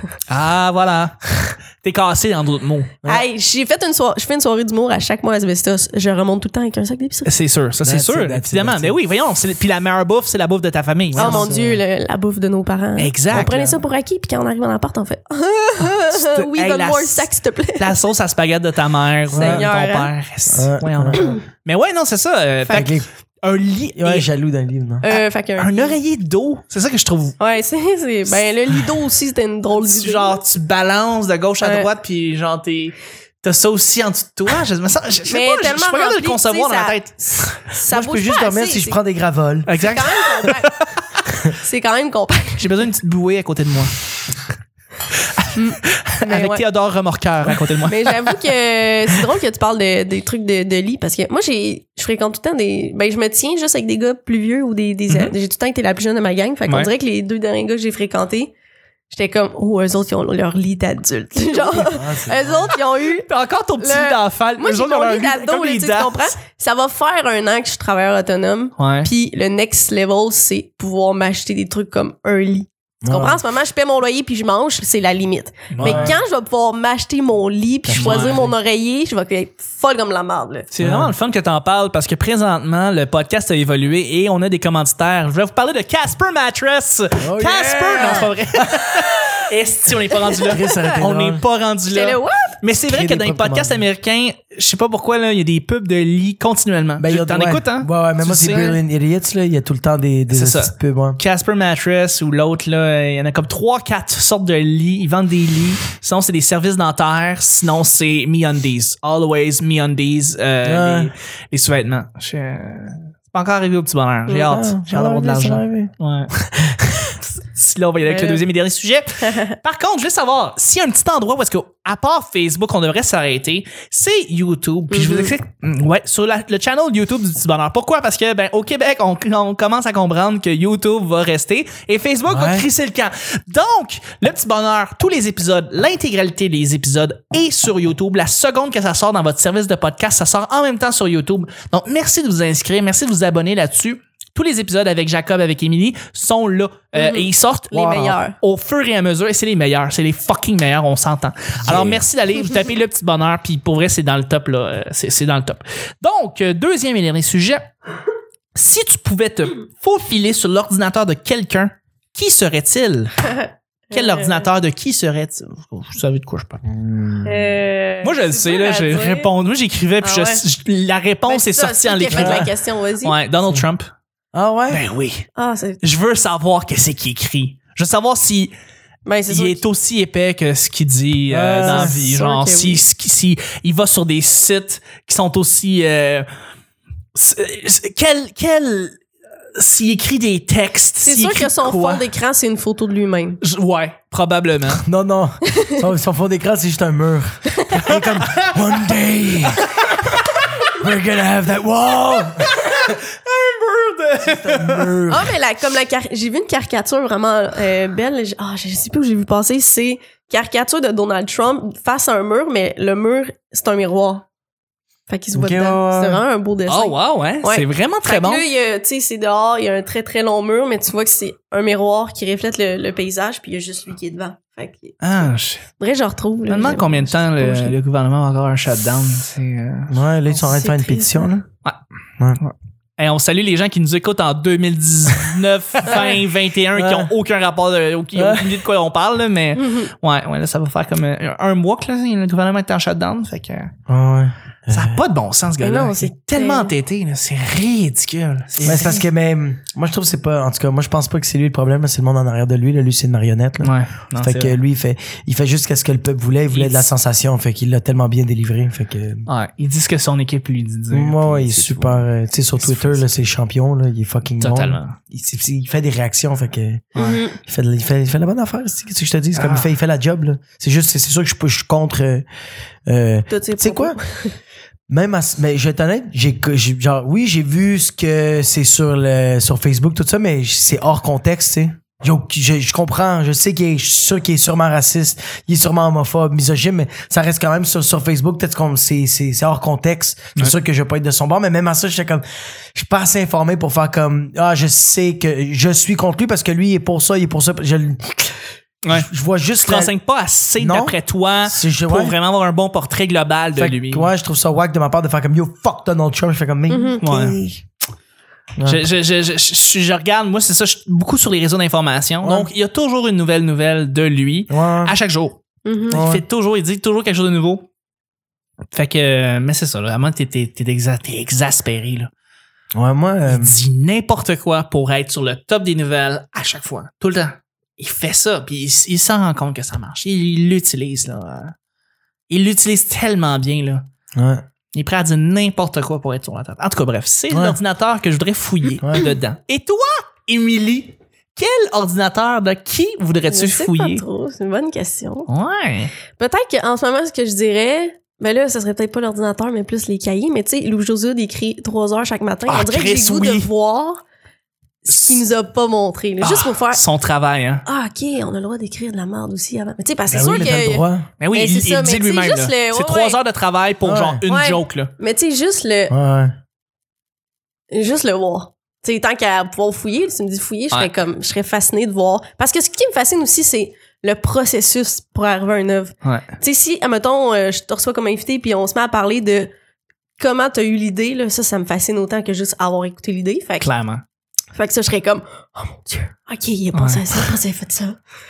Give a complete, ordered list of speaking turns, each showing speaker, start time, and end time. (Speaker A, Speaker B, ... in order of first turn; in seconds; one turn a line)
Speaker A: 0.3-2.9
Speaker B: 3.0-7.3
Speaker A: 7.2-11.5
Speaker C: 7.8-9.0
Speaker B: 11.2-17.9
Speaker C: 11.2-11.8
Speaker A: 13.0-13.8
Speaker A: 15.9-24.3
Speaker C: 19.3-19.7
Speaker B: 19.3-20.1
Speaker C: 20.5-21.4
Speaker C: 22.7-23.1
Speaker C: 24.0-25.1
Speaker B: 25.0-26.0
Speaker A: 25.1-27.4
Speaker B: 27.4-30.4
Speaker A: 29.7-37.1
Speaker B: 31.6-31.9
Speaker B: 35.3-39.0
Speaker C: 37.9-39.7
Speaker A: 39.7-40.9
Speaker B: 39.9-40.8
Speaker B: 41.5-42.7
Speaker A: 42.6-43.9
Speaker A: 45.1-45.5
Speaker B: 45.5-46.6
Speaker A: 46.0-48.2
Speaker B: 47.9-58.5
Speaker A: 55.1-55.3
Speaker B: 59.1-63.3
Speaker C: 61.8-62.7
Speaker A: 63.2-66.3
Speaker B: 63.8-80.7
Speaker A: 68.8-69.1
Speaker C: 73.0-73.4
Speaker A: 75.7-76.2
Speaker C: 75.8-76.2
Speaker C: 77.9-78.5
Speaker A: 78.0-78.4
Speaker A: 80.7-98.8
Speaker C: 80.8-81.1
Speaker C: 87.2-88.9
Speaker B: 90.3-91.0
Speaker C: 90.5-91.4
Speaker B: 91.9-92.6
Speaker C: 92.9-93.8
Speaker C: 97.0-101.2
Speaker A: 100.3-116.3
Speaker C: 110.6-111.1
Speaker C: 114.4-115.9
Speaker A: 117.1-157.6
Speaker B: 118.1-118.4
Speaker B: 119.3-119.5
Speaker B: 124.9-125.3
Speaker C: 132.3-132.7
Speaker B: 146.9-148.4
Speaker C: 151.6-152.0
Speaker A: 158.6-163.2
Speaker B: 163.3-164.5
Speaker A: 163.9-166.6
Speaker C: 166.7-167.5
Speaker B: 167.2-169.3
Speaker A: 168.0-173.9
Speaker B: 170.0-170.4
Speaker B: 171.3-173.2
Speaker C: 172.1-172.5
Speaker C: 174.3-174.8
Speaker A: 174.7-175.2
Speaker B: 175.3-175.8
Speaker A: 175.8-178.6
Speaker B: 179.1-179.6
Speaker A: 179.3-186.3
Speaker C: 181.3-182.0
Speaker B: 181.6-182.8
Speaker A: 187.2-189.0
Speaker A: 189.6-192.1
Speaker B: 191.0-193.4
Speaker A: 193.4-194.8
Speaker C: 194.7-199.8
Speaker A: 197.9-198.6
Speaker A: 199.4-200.5
Speaker C: 200.6-202.7
Speaker A: 202.3-204.9
Speaker C: 204.2-205.3
Speaker B: 205.1-214.2
Speaker B: 215.1-225.0
Speaker C: 215.3-216.2
Speaker A: 216.7-218.4
Speaker A: 225.0-225.7
Speaker B: 225.8-227.8
Speaker A: 226.5-230.0
Speaker C: 229.9-231.4
Speaker B: 230.3-231.3
Speaker A: 232.4-243.7
Speaker C: 236.7-237.1
Speaker C: 238.2-238.6
Speaker B: 239.6-239.9
Speaker C: 243.9-245.0
Speaker A: 244.7-249.0
Speaker B: 245.6-246.7
Speaker C: 248.6-259.3
Speaker B: 248.7-249.0
Speaker A: 253.6-254.6
Speaker A: 256.5-256.9
Speaker A: 259.3-262.1
Speaker C: 260.9-272.3
Speaker A: 262.6-263.0
Speaker A: 264.4-265.0
Speaker A: 266.9-267.2
Speaker B: 267.0-267.4
Speaker A: 269.3-269.7
Speaker C: 272.9-274.0
Speaker B: 273.3-274.4
Speaker C: 274.9-298.4
Speaker A: 298.9-304.1
Speaker C: 298.9-299.9
Speaker C: 300.6-302.2
Speaker C: 303.6-307.6
Speaker B: 306.7-307.0
Speaker A: 307.0-307.4
Speaker C: 308.6-308.8
Speaker A: 308.6-315.4
Speaker C: 312.2-312.5
Speaker C: 314.5-314.9
Speaker B: 315.6-316.0
Speaker A: 315.9-317.7
Speaker C: 315.9-316.2
Speaker A: 318.7-322.1
Speaker C: 322.8-323.6
Speaker A: 323.3-331.5
Speaker A: 332.3-333.9
Speaker C: 334.2-334.4
Speaker A: 334.7-344.0
Speaker C: 337.3-337.6
Speaker C: 338.8-339.1
Speaker B: 343.3-345.3
Speaker A: 345.3-345.9
Speaker B: 346.2-354.0
Speaker A: 352.5-353.5
Speaker B: 354.9-356.8
Speaker A: 354.9-355.3
Speaker A: 356.2-357.6
Speaker B: 357.7-363.2
Speaker C: 360.1-361.1
Speaker A: 361.2-364.9
Speaker C: 363.8-364.2
Speaker B: 364.3-365.9
Speaker C: 365.9-366.3
Speaker B: 367.7-379.5
Speaker B: 380.2-383.7
Speaker A: 383.6-384.0
Speaker B: 384.5-388.0
Speaker A: 386.7-387.4